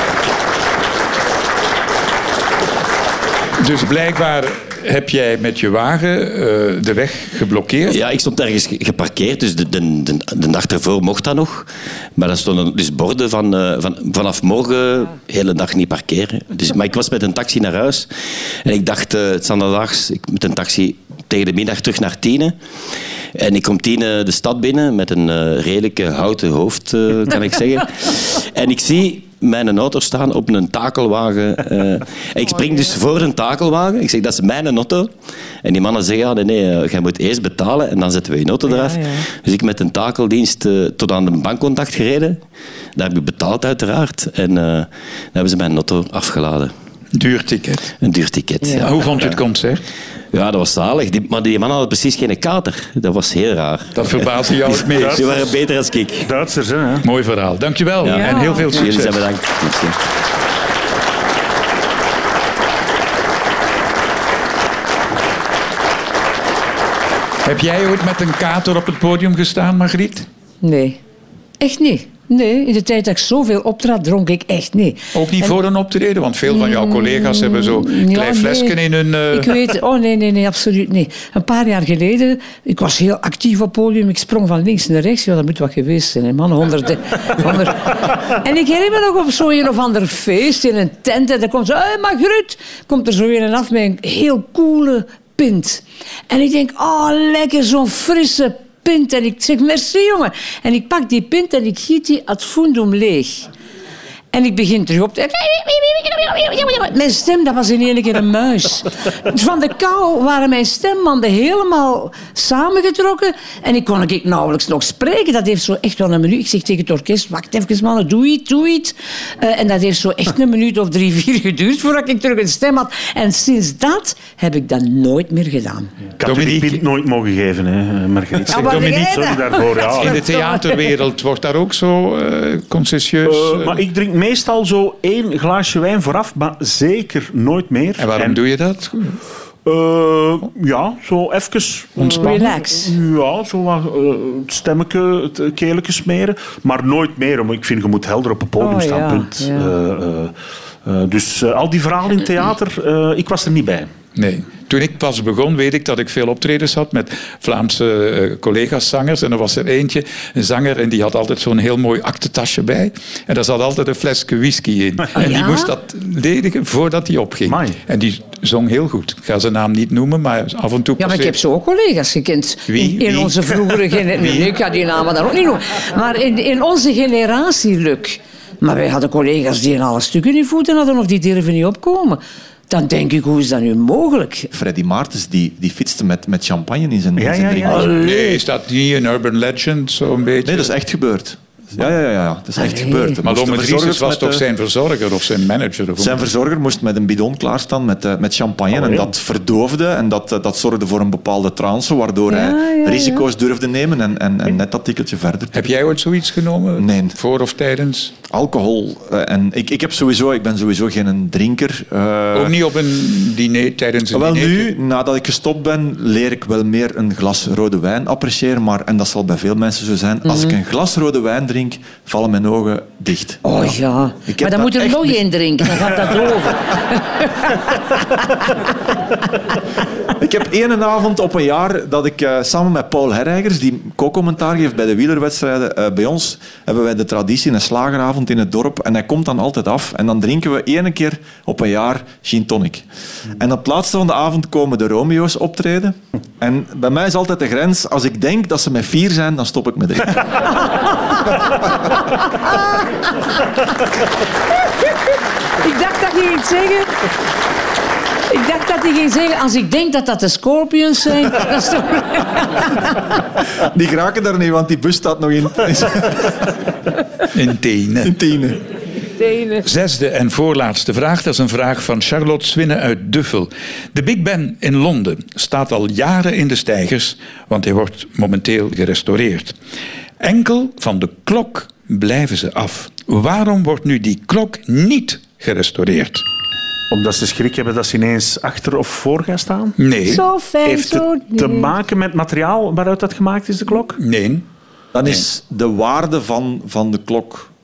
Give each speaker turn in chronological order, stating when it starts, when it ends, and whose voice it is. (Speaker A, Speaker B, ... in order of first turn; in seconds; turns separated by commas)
Speaker A: 3.6-8.0, Speaker B: 7.9-18.1, Speaker B: 18.6-22.6, Speaker B: 23.3-35.1, Speaker B: 35.6-42.4, Speaker C: 38.7-39.2, Speaker B: 42.9-46.7, Speaker A: 47.1-47.9, Speaker B: 48.0-49.4, Speaker A: 48.7-49.8, Speaker B: 50.3-56.3, Speaker A: 53.9-55.4, Speaker D: 54.7-55.4, Speaker D: 56.2-57.1, Speaker A: 57.0-59.3, Speaker B: 58.0-60.0, Speaker C: 58.0-58.9, Speaker A: 67.4-70.3, Speaker C: 70.6-71.0, Speaker C: 71.6-75.5, Speaker A: 75.1-79.7, Speaker C: 76.5-78.8, Speaker C: 79.3-103.5, Speaker C: 104.3-125.9, Speaker D: 126.2-130.2, Speaker A: 126.2-126.8, Speaker A: 128.5-129.2, Speaker C: 128.5-130.8, Speaker A: 129.9-133.8, Speaker D: 133.2-138.4, Speaker A: 138.0-139.2, Speaker D: 139.7-150.3, Speaker A: 142.0-142.5, Speaker C: 142.1-142.9, Speaker C: 148.6-149.7, Speaker D: 150.8-153.9, Speaker A: 154.2-171.3, Speaker C: 165.2-165.7, Speaker D: 167.5-167.8, Speaker C: 171.0-184.5, Speaker A: 172.7-174.5, Speaker E: 184.5-187.9, Speaker D: 187.2-187.8, Speaker C: 187.7-188.4, Speaker A: 187.8-190.7, Speaker E: 190.4-194.4, Speaker C: 192.6-193.2, Speaker A: 193.2-196.2, Speaker E: 196.0-205.8, Speaker D: 198.7-199.1, Speaker C: 202.3-203.2, Speaker A: 205.5-208.2, Speaker E: 206.8-207.2, Speaker E: 208.3-212.6, Speaker A: 212.3-214.7, Speaker E: 214.1-223.7, Speaker C: 223.4-227.6, Speaker E: 224.3-226.1, Speaker E: 230.2-250.2, Speaker C: 255.6-256.9, Speaker C: 258.3-262.9, Speaker E: 263.6-266.5, Speaker A: 267.3-268.2, Speaker E: 268.0-268.6, Speaker C: 269.2-269.6, Speaker A: 269.6-279.5, Speaker A: 280.2-286.2, Speaker D: 286.9-294.0, Speaker A: 289.8-290.2, Speaker C: 290.0-291.7, Speaker A: 294.0-294.4, Speaker E: 294.9-297.5